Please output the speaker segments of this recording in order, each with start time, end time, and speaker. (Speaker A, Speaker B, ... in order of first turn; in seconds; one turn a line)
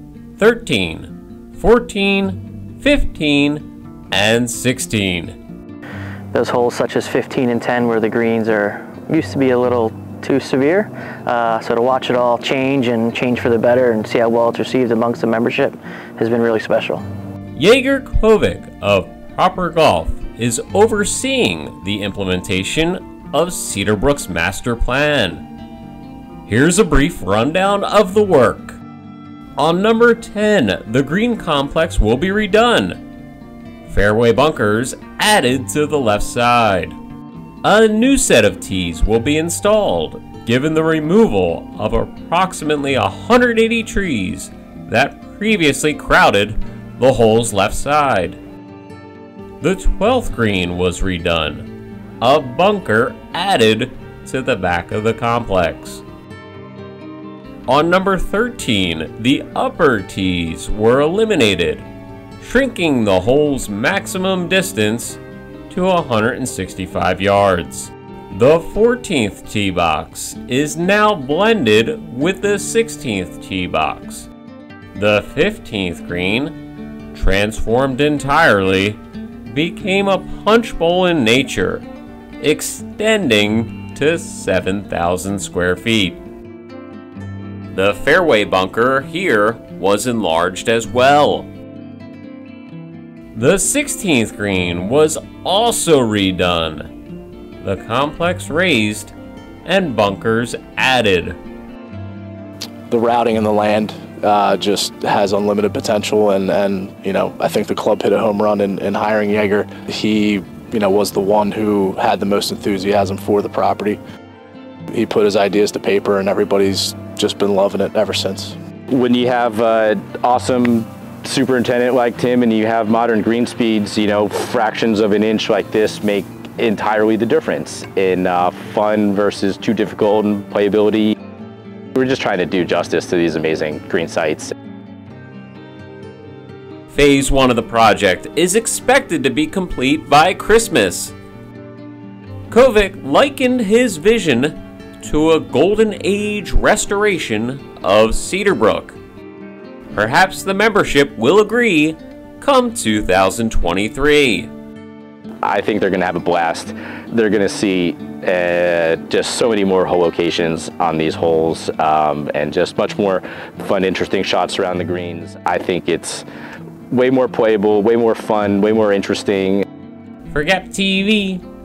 Speaker A: 0.4-5.3
Speaker B: 6.3-17.0
Speaker A: 17.6-25.4
Speaker A: 26.5-28.8
Speaker A: 29.6-33.0
Speaker A: 33.9-37.0
Speaker A: 37.6-48.4
Speaker A: 49.6-51.7
Speaker A: 52.2-56.0
Speaker A: 57.7-61.9
Speaker A: 62.4-74.3
Speaker A: 74.9-76.6
Speaker A: 77.1-81.9
Speaker A: 82.4-86.2
Speaker A: 87.7-91.5
Speaker A: 93.3-96.9
Speaker A: 97.6-99.1
Speaker A: 99.7-101.4
Speaker C: 102.9-114.0
Speaker C: 114.9-118.6
Speaker D: 118.9-131.2
Speaker D: 131.9-134.5
Speaker A: 136.9-141.2
Speaker A: 142.5-149.0
Speaker A: 149.9-154.5
Speaker D: 155.4-166.2
Speaker D: 166.9-169.6
Speaker A: 170.3-171.4